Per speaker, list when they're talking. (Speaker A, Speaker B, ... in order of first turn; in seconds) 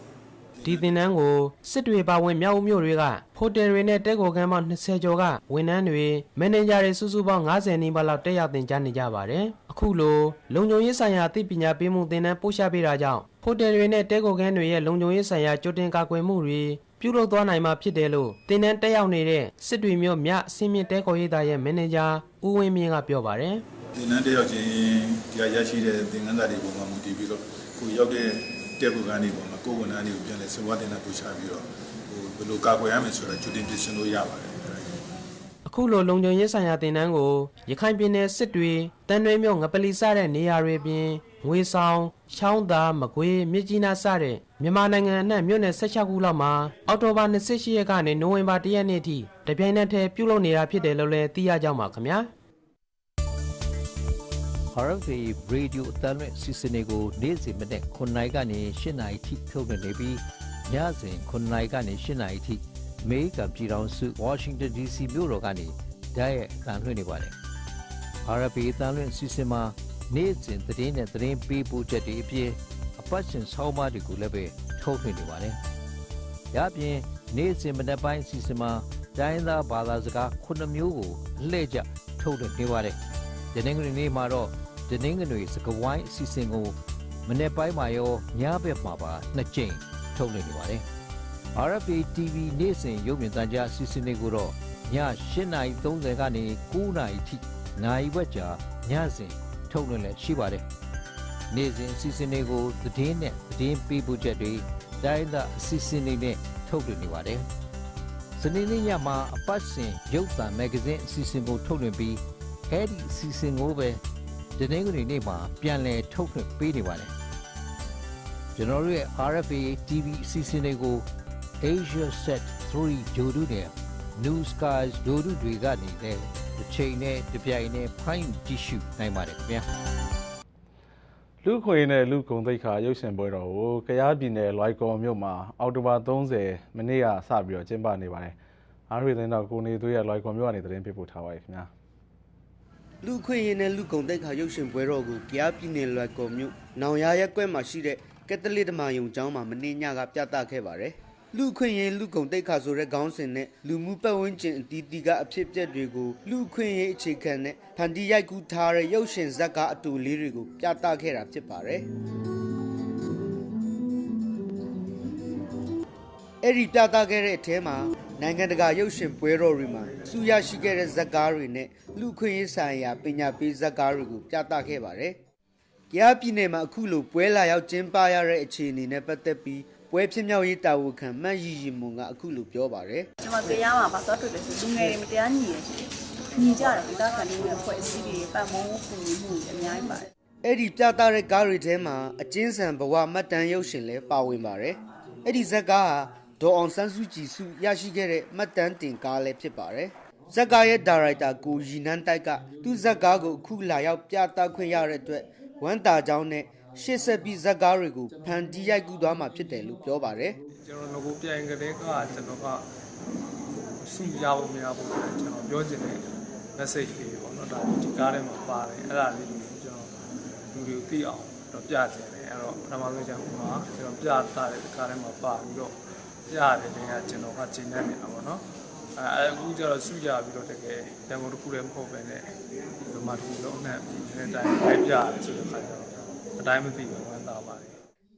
Speaker A: 0.6-23.6, 35.6-52.3
Speaker B: 23.9-34.9
Speaker C: 54.7-67.3, 68.2-75.6, 76.5-83.0, 83.5-86.7, 87.2-90.8, 91.5-100.7, 101.5-107.4, 108.4-114.0, 114.6-117.1, 118.5-121.0, 121.6-129.7
Speaker D: 131.4-138.3, 138.9-141.7
Speaker E: 143.0-161.8, 166.4-175.2, 175.9-183.1, 190.4-210.4
Speaker F: 183.2-190.1
Speaker G: 210.6-212.6, 213.8-216.0, 216.6-219.9, 220.5-225.7, 226.3-228.4, 228.9-232.2, 232.8-237.8